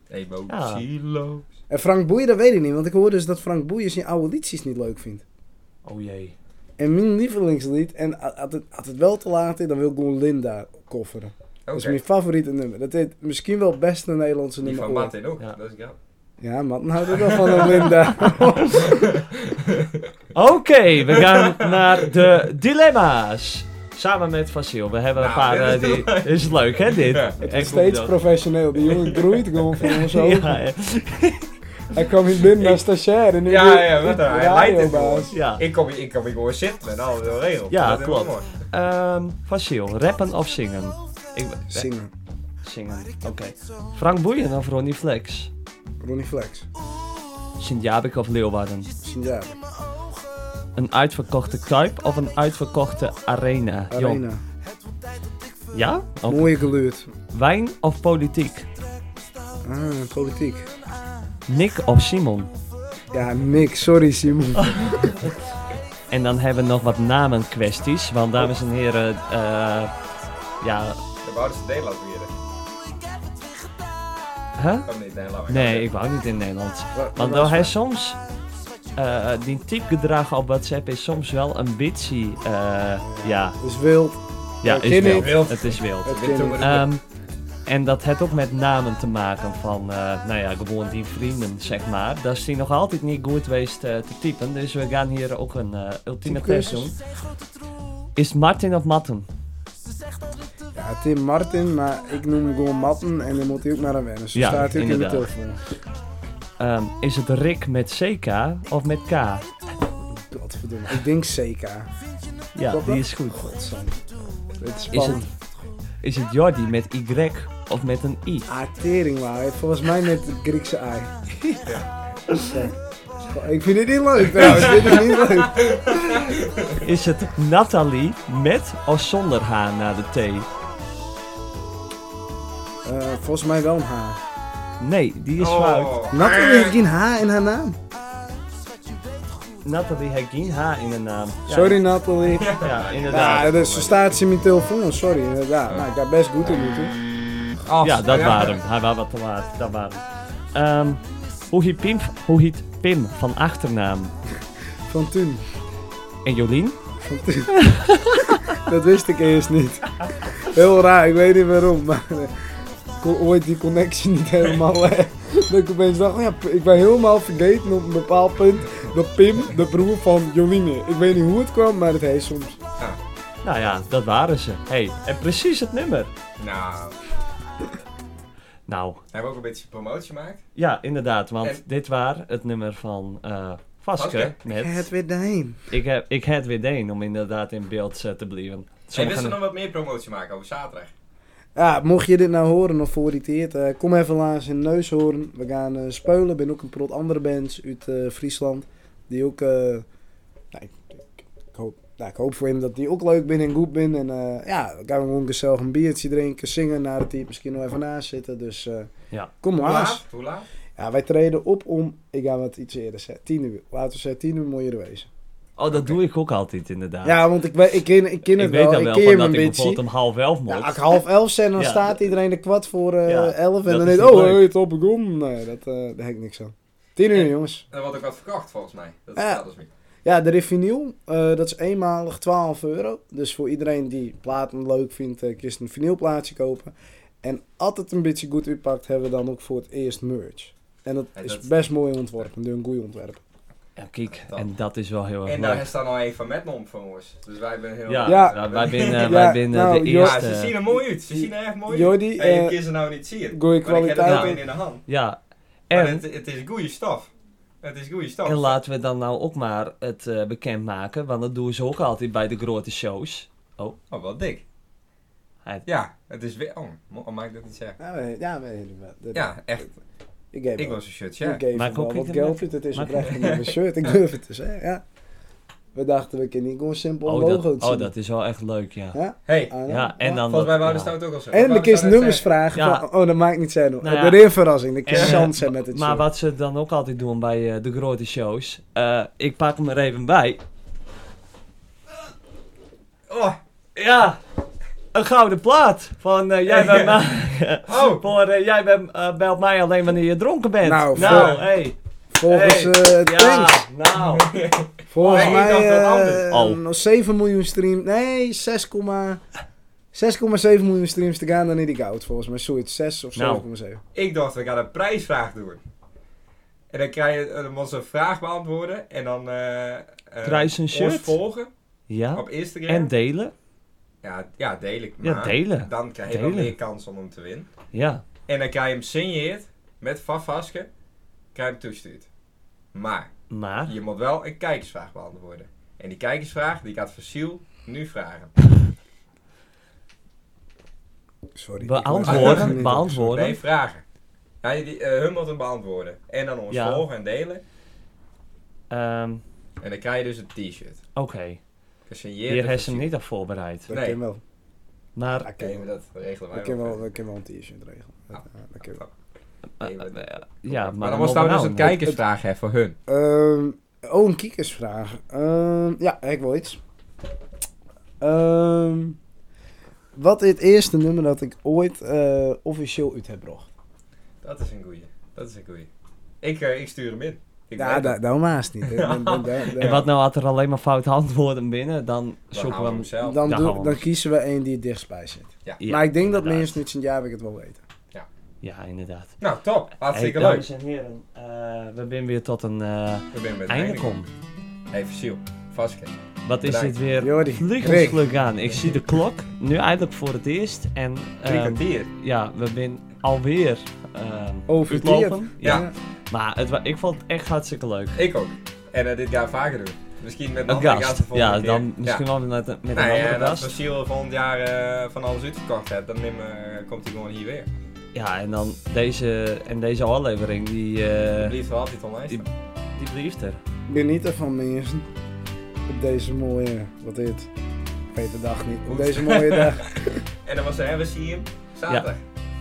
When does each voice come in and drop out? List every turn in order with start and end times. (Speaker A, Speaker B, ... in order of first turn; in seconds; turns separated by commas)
Speaker A: 0.1-1.4, Speaker B: 0.5-0.8, Speaker C: 1.7-5.2, Speaker B: 5.8-6.3, Speaker C: 6.8-15.1, Speaker A: 11.7-12.0, Speaker A: 14.6-16.0, Speaker C: 16.4-19.1, Speaker A: 17.1-17.9, Speaker B: 18.0-18.8, Speaker A: 18.8-20.1, Speaker B: 20.3-28.1, Speaker A: 21.1-22.1, Speaker A: 25.2-27.4, Speaker C: 27.4-30.6, Speaker A: 28.8-29.8, Speaker B: 29.8-31.5, Speaker C: 31.9-35.3, Speaker A: 33.4-38.6, Speaker B: 35.3-35.6, Speaker B: 37.7-41.9, Speaker C: 41.7-42.1, Speaker B: 42.6-45.5, Speaker C: 46.0-46.7, Speaker B: 47.6-48.9, Speaker C: 49.0-49.6, Speaker B: 50.8-54.2, Speaker C: 53.9-54.4, Speaker B: 55.7-56.5, Speaker C: 56.3-57.1, Speaker B: 57.3-58.7, Speaker C: 59.6-60.7, Speaker B: 61.5-62.5, Speaker C: 63.1-65.1, Speaker B: 64.8-65.3, Speaker B: 66.1-69.9, Speaker B: 70.6-71.0, Speaker A: 71.2-72.3, Speaker B: 74.6-74.9, Speaker A: 74.8-75.9, Speaker B: 75.5-78.2, Speaker C: 76.9-77.7, Speaker B: 79.0-83.6, Speaker C: 83.0-85.5, Speaker B: 84.6-87.0, Speaker A: 85.0-86.9, Speaker C: 86.0-86.7, Speaker B: 87.7-97.0, Speaker C: 96.2-96.9, Speaker B: 98.2-99.3, Speaker C: 100.7-105.6, Speaker B: 104.3-105.3, Speaker B: 106.6-109.5, Speaker C: 110.1-111.9, Speaker B: 112.5-113.4, Speaker C: 112.7-115.3, Speaker B: 114.9-115.2, Speaker B: 116.0-118.5, Speaker C: 118.5-121.7, Speaker A: 121.7-121.9, Speaker B: 122.3-122.5, Speaker C: 122.4-126.3, Speaker A: 124.3-126.8, Speaker B: 126.8-130.5, Speaker C: 132.8-134.2, Speaker B: 134.8-136.0, Speaker A: 135.4-136.8, Speaker C: 136.1-137.8, Speaker B: 139.6-141.8, Speaker C: 141.5-142.5, Speaker A: 142.3-143.5, Speaker B: 142.6-144.1, Speaker C: 143.1-147.0, Speaker A: 147.7-148.6, Speaker B: 147.8-154.1, Speaker C: 154.8-155.5, Speaker B: 156.2-156.8, Speaker C: 157.0-157.6, Speaker B: 157.6-158.5, Speaker C: 158.5-162.3, Speaker C: 163.0-172.6, Speaker B: 173.4-176.1, Speaker A: 176.4-177.0, Speaker B: 178.7-179.0, Speaker A: 179.1-180.4, Speaker B: 180.6-184.8, Speaker A: 184.0-184.4, Speaker C: 184.5-185.6, Speaker B: 185.7-189.4, Speaker A: 188.9-190.9, Speaker C: 191.5-199.8, Speaker C: 200.5-208.9, Speaker C: 209.4-210.0, Speaker A: 209.6-210.4, Speaker C: 210.8-215.1, Speaker B: 215.6-217.2, Speaker A: 215.7-216.0, Speaker C: 217.0-219.8, Speaker B: 218.3-220.9, Speaker C: 220.5-227.7, Speaker B: 221.6-222.0, Speaker B: 223.1-224.5, Speaker A: 227.1-229.7, Speaker C: 229.2-229.4, Speaker C: 230.0-243.2, Speaker A: 241.1-241.5, Speaker B: 243.8-245.7, Speaker A: 244.1-244.5, Speaker A: 245.2-249.3, Speaker B: 247.9-250.5, Speaker C: 248.0-250.2, Speaker A: 250.0-254.8, Speaker C: 251.1-252.6, Speaker C: 253.3-254.4, Speaker B: 254.0-254.3, Speaker B: 254.8-255.2, Speaker B: 255.7-256.0, Speaker A: 255.7-257.1, Speaker A: 257.6-258.6, Speaker B: 258.2-263.8, Speaker A: 263.9-264.4, Speaker A: 265.6-267.8, Speaker C: 267.8-269.6, Speaker A: 269.1-269.7, Speaker C: 270.3-274.8, Speaker A: 270.6-271.4, Speaker B: 271.5-273.2, Speaker A: 273.1-273.9, Speaker C: 275.7-277.9, Speaker B: 277.1-279.0, Speaker C: 278.9-279.9, Speaker A: 279.3-282.3, Speaker B: 279.7-280.9, Speaker C: 281.3-286.1, Speaker B: 282.5-282.9, Speaker B: 283.8-284.2, Speaker B: 284.9-290.4, Speaker A: 284.9-285.3, Speaker A: 293.1-293.4, Speaker B: 293.8-294.2, Speaker B: 294.9-304.3, Speaker A: 296.5-297.0, Speaker A: 297.6-298.0, Speaker C: 300.6-301.4, Speaker A: 300.9-301.5, Speaker C: 302.1-303.7, Speaker A: 304.0-306.3, Speaker C: 304.9-309.2, Speaker B: 305.0-305.7, Speaker B: 306.2-306.6, Speaker C: 309.9-313.8, Speaker B: 313.1-313.4, Speaker A: 313.9-315.6, Speaker A: 316.7-321.5, Speaker B: 320.2-321.2, Speaker B: 321.9-323.3, Speaker A: 322.1-322.9, Speaker A: 324.0-327.5, Speaker B: 325.0-326.5, Speaker B: 327.7-328.0, Speaker A: 328.3-330.7, Speaker A: 331.3-332.1, Speaker A: 332.7-333.1, Speaker B: 333.3-333.7, Speaker A: 333.6-338.3, Speaker C: 341.3-343.2, Speaker B: 341.6-343.4, Speaker A: 342.1-342.6, Speaker A: 343.1-343.8, Speaker A: 344.4-347.4, Speaker B: 346.5-346.9, Speaker B: 348.7-349.2, Speaker A: 349.6-350.8, Speaker B: 350.9-351.4, Speaker A: 351.9-352.9, Speaker B: 352.3-353.7, Speaker C: 353.7-354.2, Speaker A: 353.7-354.0, Speaker B: 354.9-355.3, Speaker C: 355.2-355.6, Speaker A: 355.4-356.8, Speaker C: 356.3-358.8, Speaker B: 359.6-361.9, Speaker A: 359.6-362.8, Speaker C: 362.9-366.6, Speaker C: 368.0-369.0, Speaker C: 369.9-373.5, Speaker A: 374.2-375.7, Speaker A: 376.2-377.9, Speaker C: 377.6-379.8, Speaker A: 378.7-379.8, Speaker B: 379.6-383.8, Speaker A: 382.3-383.2, Speaker C: 383.0-387.6, Speaker B: 385.6-386.6, Speaker B: 388.4-389.2, Speaker A: 389.2-390.5, Speaker B: 389.9-394.1, Speaker A: 393.1-393.9, Speaker A: 394.7-396.7, Speaker B: 396.2-408.0, Speaker C: 397.0-398.1, Speaker A: 401.2-401.9, Speaker C: 404.5-405.7, Speaker A: 408.0-412.0, Speaker B: 410.5-413.5, Speaker A: 412.7-417.5, Speaker B: 417.9-421.3, Speaker A: 421.1-422.2, Speaker B: 422.1-423.4, Speaker C: 423.7-424.9, Speaker C: 425.7-427.3, Speaker C: 427.9-430.0, Speaker A: 428.7-429.6, Speaker A: 430.2-432.0